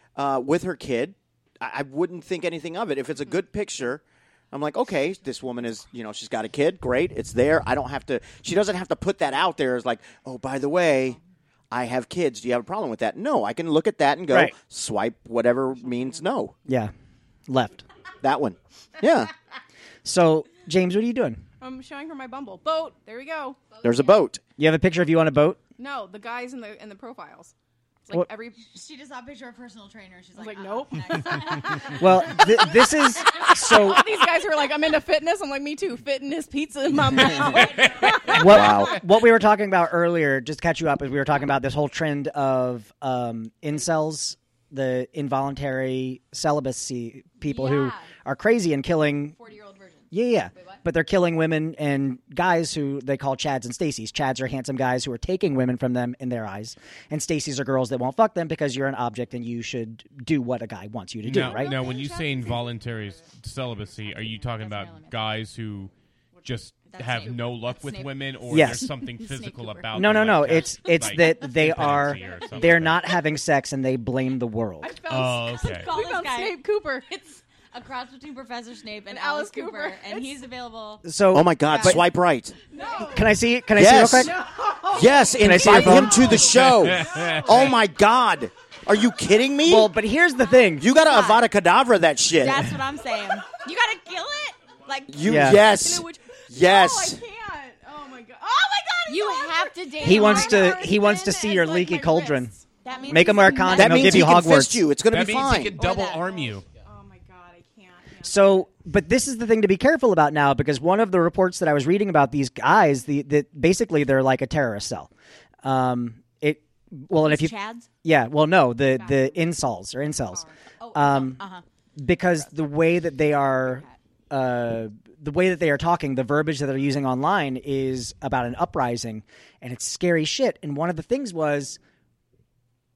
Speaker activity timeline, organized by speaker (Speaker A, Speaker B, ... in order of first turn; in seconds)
Speaker A: 0.1-11.2, 11.7-16.5, 18.2-19.3, 23.8-24.4, 38.5-38.9, 81.3-82.5, 83.7-84.3, 84.9-89.9, 90.8-92.8, 95.1-97.2, 103.7-105.8
Speaker B: 16.6-16.9, 17.5-17.8, 20.0-21.4, 24.6-25.6, 31.9-34.1, 38.3-49.3, 50.1-61.8, 68.5-68.9, 69.9-74.9, 81.0-82.1, 83.1-84.3, 85.3-86.4, 89.6-90.9, 95.2-95.6, 100.0-102.5, 103.1-104.9, 108.2-115.1, 115.6-121.4, 122.0-131.8
Speaker C: 21.6-23.6, 25.8-27.5, 28.1-28.7, 30.3-38.8, 61.4-62.5, 74.8-77.2, 79.1-80.3, 82.7-83.3, 84.2-87.8, 95.7-104.1, 105.9-108.7
Speaker D: 28.6-33.5, 37.2-38.8, 47.4-48.1, 49.3-50.8, 61.4-62.5, 63.9-65.2, 66.9-70.3, 70.8-72.6, 75.6-81.0, 81.7-82.0, 85.5-86.2, 90.9-91.5, 92.3-95.8, 99.0-100.9, 102.8-104.4, 105.8-106.3, 117.2-117.9, 119.0-119.3, 120.8-121.6, 123.6-124.0
Speaker E: 61.2-65.9, 66.4-73.0, 75.1-75.9, 86.3-87.8, 105.1-106.6